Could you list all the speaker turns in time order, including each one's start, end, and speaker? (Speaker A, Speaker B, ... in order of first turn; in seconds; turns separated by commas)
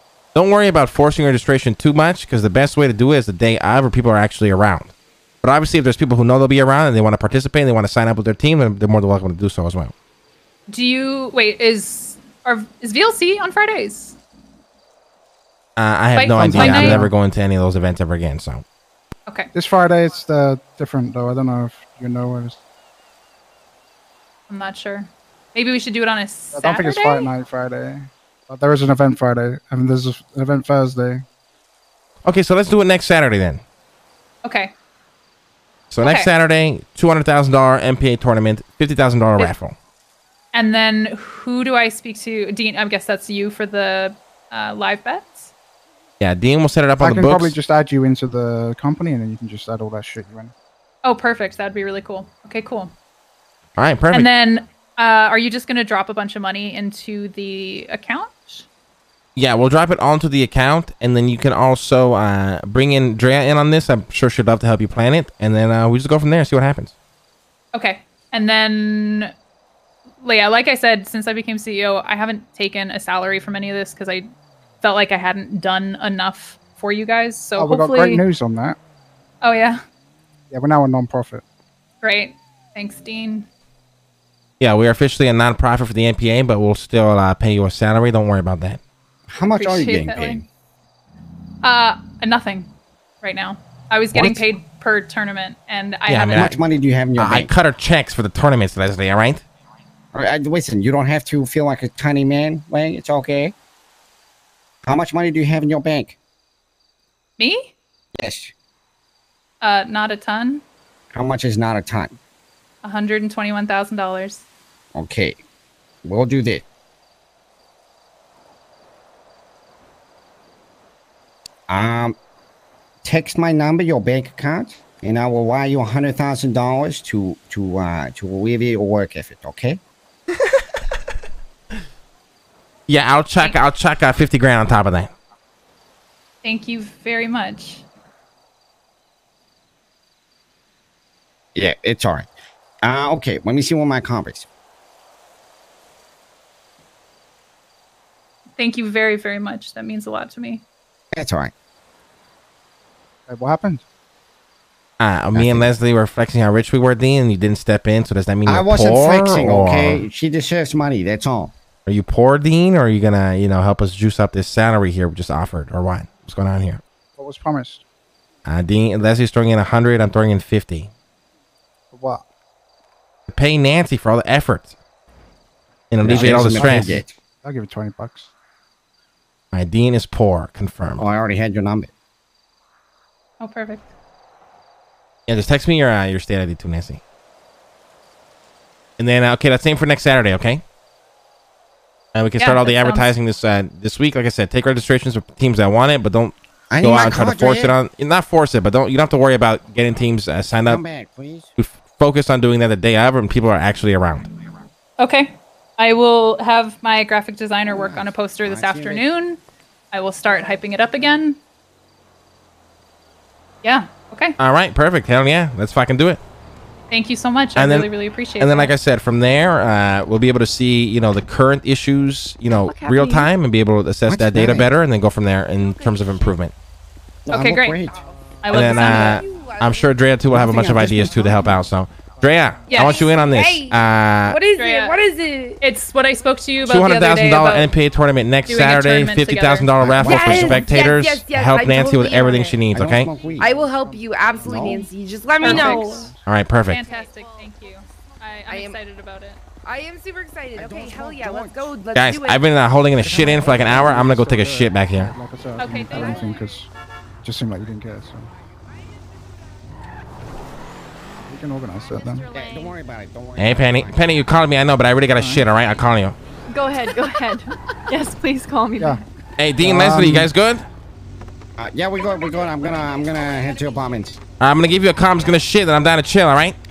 Speaker A: 0.3-9.9, Speaker B: 10.7-14.2, Speaker A: 15.8-18.6, Speaker B: 16.1-17.0, Speaker C: 16.4-17.1, Speaker C: 19.5-22.6, Speaker B: 24.5-27.3, Speaker C: 26.5-31.2, Speaker A: 32.2-33.6, Speaker B: 34.5-34.7, Speaker A: 35.9-39.8, Speaker B: 36.0-36.3, Speaker B: 40.5-45.5, Speaker A: 46.2-47.5, Speaker C: 47.0-50.5, Speaker B: 51.0-52.9, Speaker A: 53.8-54.3, Speaker B: 54.1-58.6, Speaker A: 59.4-66.9, Speaker B: 67.8-69.3, Speaker B: 70.2-74.3, Speaker B: 74.8-78.2, Speaker C: 77.6-78.8, Speaker B: 79.4-79.8, Speaker C: 80.5-81.4, Speaker B: 82.0-83.5, Speaker A: 84.6-88.8, Speaker D: 89.3-90.5, Speaker B: 89.5-90.4, Speaker B: 91.6-92.7, Speaker B: 93.2-96.5, Speaker D: 94.1-94.4, Speaker A: 96.1-96.6, Speaker D: 96.3-97.5, Speaker A: 97.2-99.4, Speaker D: 100.1-103.5, Speaker D: 104.8-106.2, Speaker B: 107.4-107.7, Speaker D: 108.2-108.5, Speaker B: 109.6-110.6, Speaker D: 111.1-112.2, Speaker B: 112.8-114.5, Speaker D: 115.0-115.4, Speaker D: 116.0-116.6, Speaker D: 121.7-122.2, Speaker D: 123.0-129.8, Speaker A: 132.9-135.1, Speaker B: 136.4-137.9, Speaker D: 141.6-142.3, Speaker D: 142.8-144.5, Speaker B: 148.6-150.6, Speaker D: 151.1-151.5, Speaker C: 153.3-153.8, Speaker A: 155.0-160.1, Speaker D: 155.3-155.7, Speaker D: 158.5-161.5, Speaker A: 161.9-166.8, Speaker C: 167.2-167.8, Speaker A: 168.5-170.9, Speaker C: 171.9-172.3, Speaker A: 173.3-174.7, Speaker A: 175.9-177.0, Speaker D: 176.0-177.1, Speaker C: 176.0-178.3, Speaker A: 179.5-181.0, Speaker D: 181.0-181.9, Speaker B: 183.4-183.9, Speaker A: 185.3-187.0, Speaker A: 189.0-190.6, Speaker A: 192.1-200.8, Speaker B: 192.4-193.1, Speaker D: 196.7-197.7, Speaker D: 200.7-201.5, Speaker A: 201.6-204.3, Speaker B: 205.0-209.4, Speaker D: 207.7-209.1, Speaker B: 209.9-211.4, Speaker B: 213.6-214.4, Speaker A: 214.4-216.2, Speaker B: 216.9-218.7, Speaker A: 217.6-226.5, Speaker E: 222.6-223.3, Speaker D: 224.1-224.7, Speaker E: 225.6-226.4, Speaker D: 227.3-228.0, Speaker B: 227.3-227.8, Speaker E: 227.8-231.6, Speaker B: 228.4-229.3, Speaker A: 228.5-234.4, Speaker C: 230.3-231.2, Speaker B: 232.7-233.1, Speaker E: 232.7-235.6, Speaker B: 234.6-235.0, Speaker B: 235.6-237.7, Speaker A: 236.7-243.1, Speaker B: 238.5-240.0, Speaker D: 239.8-240.9, Speaker E: 240.0-242.6, Speaker D: 242.7-243.5, Speaker C: 243.2-244.9, Speaker E: 243.2-246.2, Speaker D: 244.4-244.9, Speaker B: 245.4-246.1, Speaker F: 245.4-246.1, Speaker C: 245.4-246.2, Speaker A: 246.3-246.8, Speaker B: 246.7-249.4, Speaker E: 246.7-248.8, Speaker E: 249.6-252.4, Speaker D: 250.6-251.7, Speaker A: 251.9-255.1, Speaker C: 253.0-256.7, Speaker B: 255.6-256.3, Speaker E: 255.7-256.6, Speaker C: 257.2-258.3, Speaker C: 261.2-262.2, Speaker E: 261.9-262.8, Speaker D: 262.3-264.0, Speaker A: 263.4-266.2, Speaker C: 265.1-265.5, Speaker F: 266.5-269.0, Speaker E: 266.9-267.4, Speaker A: 269.4-270.6, Speaker C: 269.6-270.3, Speaker D: 271.6-274.2, Speaker E: 272.0-273.9, Speaker A: 274.4-276.6